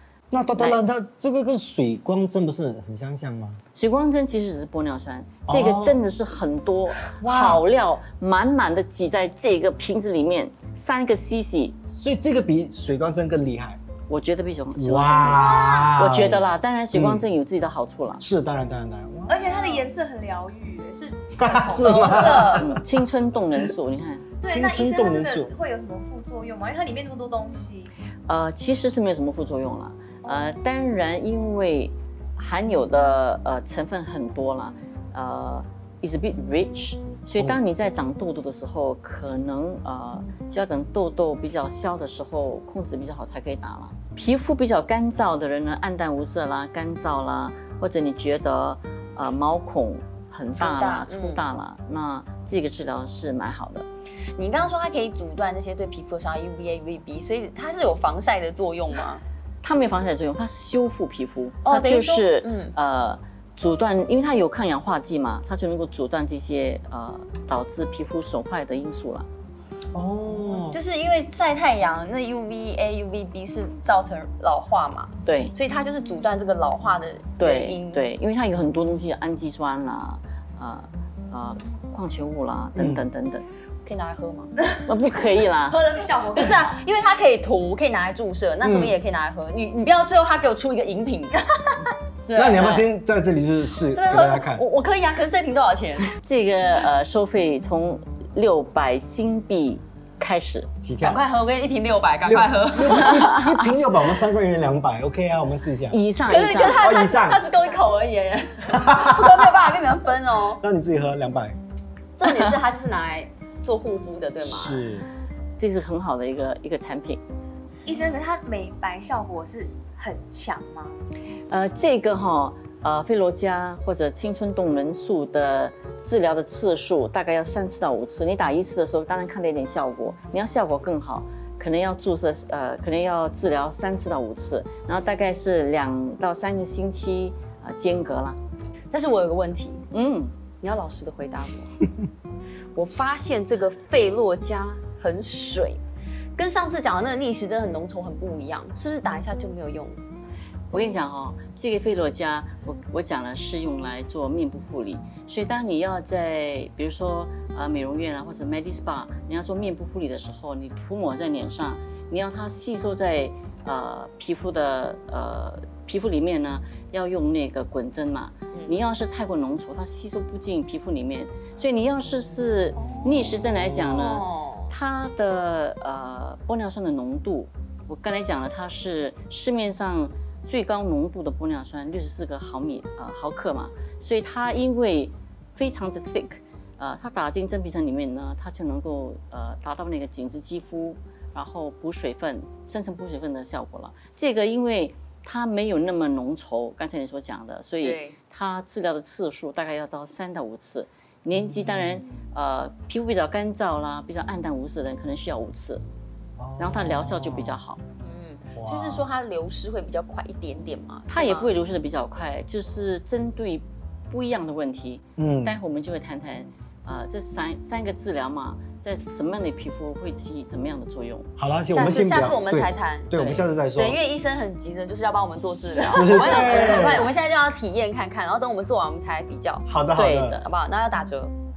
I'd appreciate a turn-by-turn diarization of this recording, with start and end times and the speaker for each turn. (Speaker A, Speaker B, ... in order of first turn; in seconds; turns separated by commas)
Speaker A: 0.3-3.6, Speaker B: 3.7-11.8, Speaker A: 5.5-6.0, Speaker A: 7.2-7.6, Speaker A: 11.9-13.8, Speaker B: 14.1-18.2, Speaker A: 14.7-17.3, Speaker A: 18.2-19.4, Speaker C: 19.3-22.0, Speaker D: 19.4-19.8, Speaker A: 21.4-22.8, Speaker D: 21.8-22.7, Speaker B: 22.0-24.3, Speaker C: 24.4-27.9, Speaker A: 24.4-25.5, Speaker B: 28.3-53.9, Speaker C: 30.2-30.5, Speaker D: 50.5-51.4, Speaker D: 54.4-59.2, Speaker B: 59.6-69.2, Speaker D: 61.6-62.7, Speaker A: 69.9-70.8, Speaker D: 70.6-78.1, Speaker B: 75.2-75.5, Speaker B: 77.4-83.4, Speaker A: 82.8-83.0, Speaker D: 83.8-84.6, Speaker B: 84.8-85.9, Speaker C: 85.7-86.7, Speaker D: 86.3-92.9, Speaker A: 88.6-89.0, Speaker A: 92.3-94.6, Speaker D: 93.9-96.1, Speaker B: 96.2-100.7, Speaker A: 100.8-101.2, Speaker D: 101.0-103.5, Speaker A: 102.2-106.0, Speaker B: 105.9-106.8, Speaker D: 106.3-110.6, Speaker A: 106.8-107.4, Speaker A: 108.8-109.3, Speaker A: 110.6-111.6, Speaker D: 112.2-114.8, Speaker A: 114.4-115.1, Speaker B: 115.6-117.2, Speaker C: 117.8-120.9, Speaker B: 121.5-138.4, Speaker D: 138.9-139.8, Speaker B: 139.9-140.3, Speaker D: 140.6-141.8, Speaker D: 142.7-145.8, Speaker D: 146.4-150.0, Speaker B: 150.7-205.8, Speaker D: 168.5-168.8, Speaker D: 172.8-174.7, Speaker D: 197.8-198.2, Speaker A: 206.4-207.6, Speaker B: 206.6-207.8, Speaker D: 208.0-211.5, Speaker A: 208.6-209.1, Speaker B: 211.1-221.3, Speaker A: 215.2-215.6, Speaker A: 221.4-224.0, Speaker D: 221.7-223.1, Speaker B: 223.1-223.4, Speaker D: 223.7-229.6, Speaker A: 225.7-227.1, Speaker A: 229.7-230.4, Speaker B: 229.9-230.4, Speaker D: 230.3-231.3